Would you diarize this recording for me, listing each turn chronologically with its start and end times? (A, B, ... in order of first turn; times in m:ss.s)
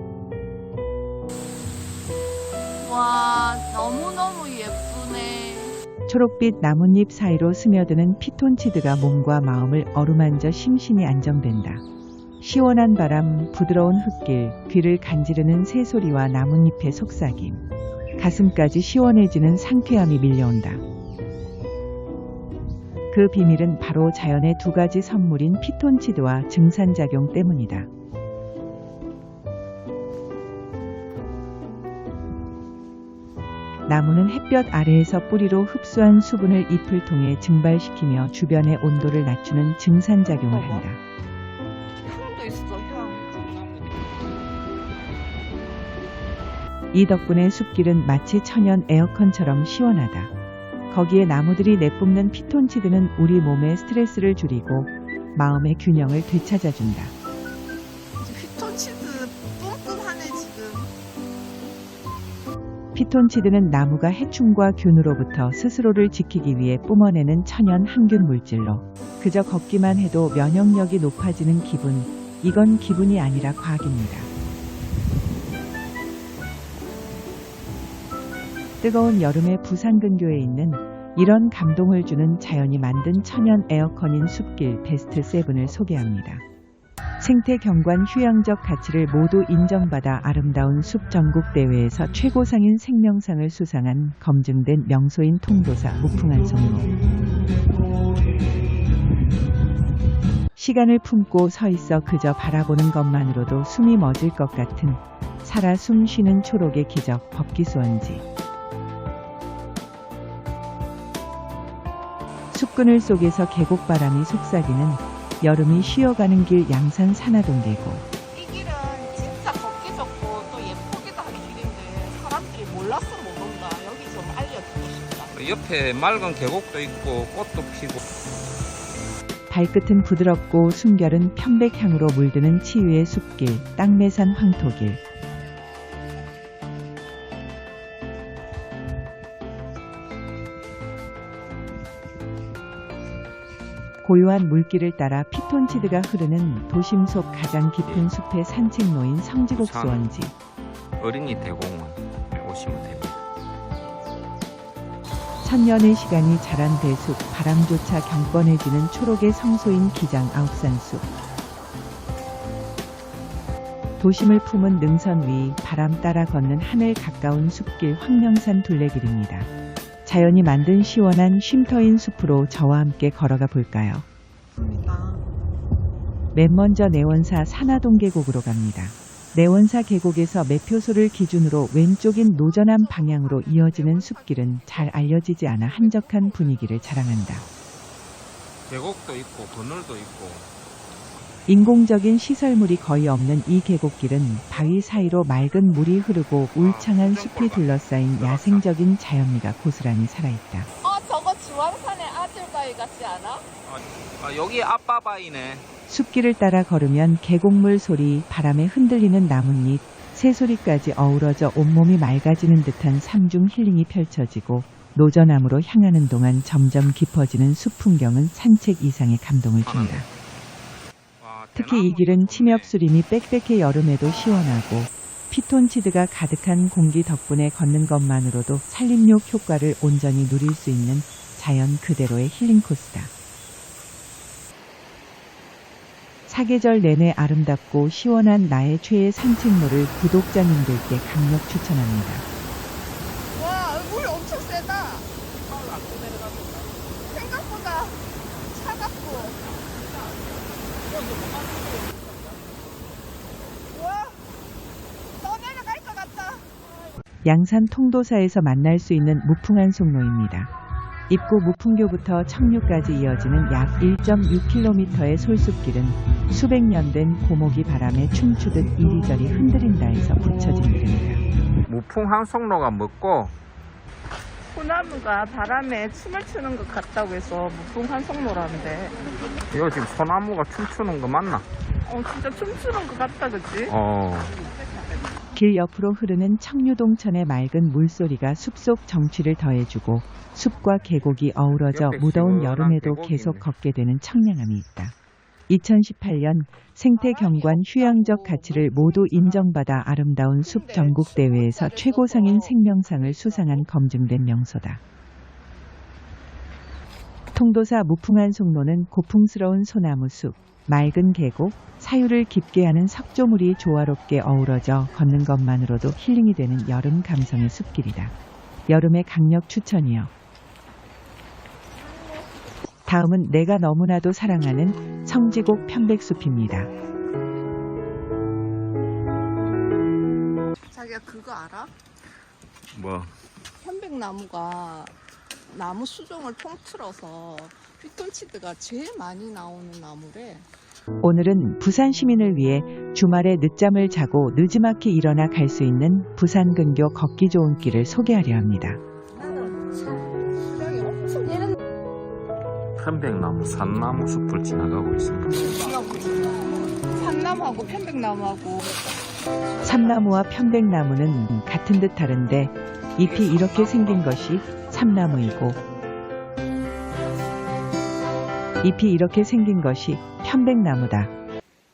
0:02.8-0:05.8 A
0:06.1-0:11.8 B
0:12.4-0:17.6 B
0:18.2-0:20.8 B
0:23.1-0:27.9 B
0:33.9-0:41.0 B
0:40.3-0:40.8 A
0:42.0-0:43.9 A
0:46.9-0:50.3 B
0:50.9-0:57.1 B
0:58.2-1:00.9 A
1:02.9-1:14.3 B
1:18.8-1:26.4 B
1:27.2-1:36.9 B
1:40.6-1:48.2 B
1:52.5-1:58.0 B
1:58.3-2:05.3 A
2:05.3-2:08.0 C
2:09.5-2:15.0 B
2:24.0-2:30.3 B
2:27.8-2:28.1 C
2:29.5-2:30.1 C
2:31.0-2:33.2 C
2:35.4-2:41.0 B
2:44.0-2:49.5 B
2:50.0-2:54.0 B
2:54.6-2:55.2 A
2:56.3-3:07.4 B
3:02.3-3:07.0 A
3:07.3-3:07.5 C
3:08.7-3:10.5 C
3:11.5-3:20.7 B
3:14.6-3:15.0 A
3:16.5-3:18.6 C
3:20.8-3:23.4 A
3:23.6-3:25.6 C
3:25.9-3:40.1 B
3:39.6-3:40.1 C
3:41.2-3:42.7 C
3:41.5-3:53.1 B
3:44.0-3:44.5 A
3:56.3-4:02.2 B
4:03.3-4:05.1 A
4:05.5-4:06.7 C
4:07.0-4:10.0 A
4:10.8-4:12.0 A
4:13.7-4:14.2 A
4:15.2-4:16.5 A
4:17.2-4:20.5 B
4:21.1-4:31.2 B
4:31.6-4:33.3 C
4:34.5-4:39.0 A
4:39.5-4:41.4 C
4:41.8-4:43.7 A
4:43.6-4:44.4 C
4:45.3-4:54.9 B
4:51.7-4:53.5 C
4:55.5-5:04.8 B
4:56.9-4:59.5 A
5:00.4-5:03.6 A
5:07.3-5:18.1 B
5:18.7-5:20.1 B
5:22.8-5:26.7 B
5:30.7-5:31.7 A
5:32.7-5:33.1 C
5:33.6-5:34.9 A
5:35.5-5:40.4 A
5:41.0-5:48.8 B
5:50.7-5:51.4 A
5:52.8-5:55.5 C
5:55.4-5:58.8 A
5:59.6-6:05.6 B
6:03.0-6:04.3 C
6:08.6-6:11.1 B